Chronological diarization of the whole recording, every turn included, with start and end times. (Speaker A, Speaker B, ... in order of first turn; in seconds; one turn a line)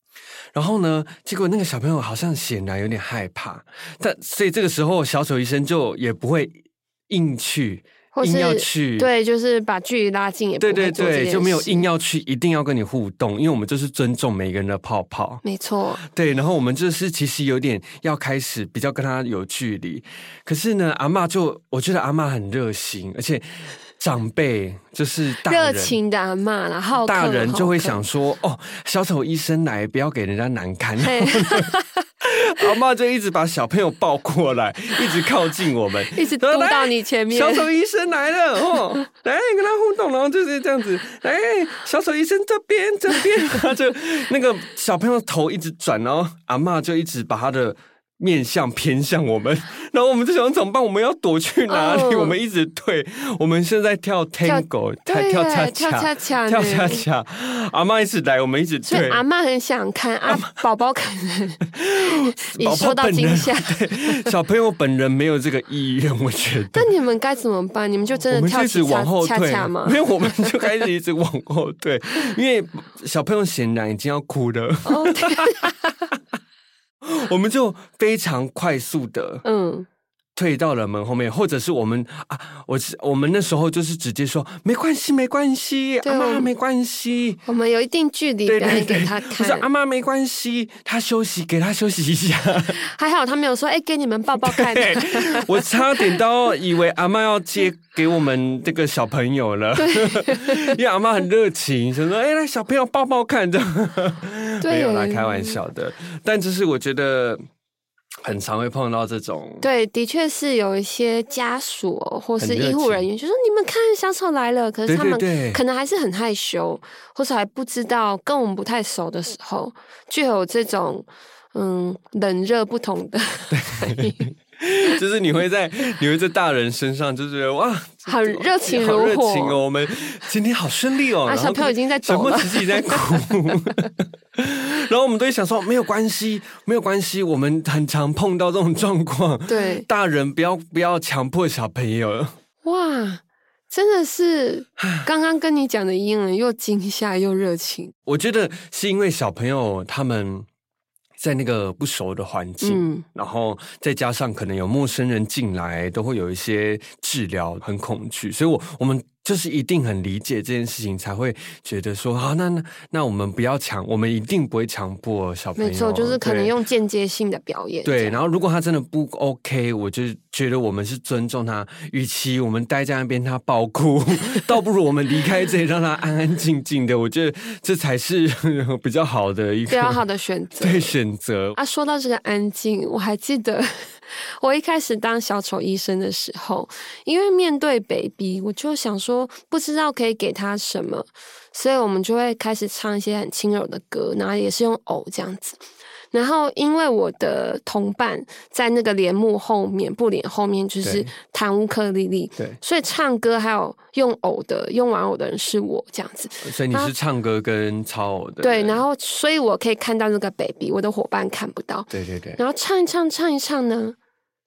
Speaker A: 0.5-9.1
Speaker B: 8.1-11.9
Speaker A: 10.6-15.4
Speaker B: 15.4-16.0
Speaker A: 16.0-23.4
Speaker A: 24.0-26.0
Speaker B: 25.4-28.0
Speaker A: 27.0-31.7
Speaker B: 31.1-32.0
Speaker A: 32.2-59.2
Speaker B: 36.1-37.7
Speaker B: 51.7-52.4
Speaker B: 54.4-57.0
Speaker B: 58.9-64.2
Speaker A: 60.2-60.6
Speaker A: 61.7-66.9
Speaker B: 66.7-70.5
Speaker A: 68.3-75.7
Speaker B: 74.8-75.7
Speaker A: 77.0-79.4
Speaker B: 79.4-79.9
Speaker A: 80.3-87.4
Speaker B: 86.0-86.5
Speaker B: 87.5-89.7
Speaker A: 88.5-92.8
Speaker B: 92.8-95.6
Speaker A: 94.5-107.4
Speaker B: 99.8-100.6
Speaker B: 104.6-105.6
Speaker A: 108.2-109.7
Speaker B: 109.6-124.2
Speaker A: 112.4-113.0
Speaker A: 114.8-115.6
Speaker A: 123.5-142.3
Speaker B: 128.1-129.6
Speaker B: 131.2-133.2
Speaker B: 139.5-139.9
Speaker B: 142.6-147.9
Speaker A: 144.8-145.1
Speaker A: 148.1-150.5
Speaker A: 151.2-166.5
Speaker B: 152.6-153.0
Speaker B: 165.6-168.2
Speaker A: 167.8-180.0
Speaker B: 179.7-180.9
Speaker A: 180.6-181.6
Speaker B: 181.6-195.6
Speaker B: 196.1-206.9
Speaker A: 200.8-201.1
Speaker A: 206.4-208.8
Speaker B: 208.4-213.9
Speaker A: 211.9-212.4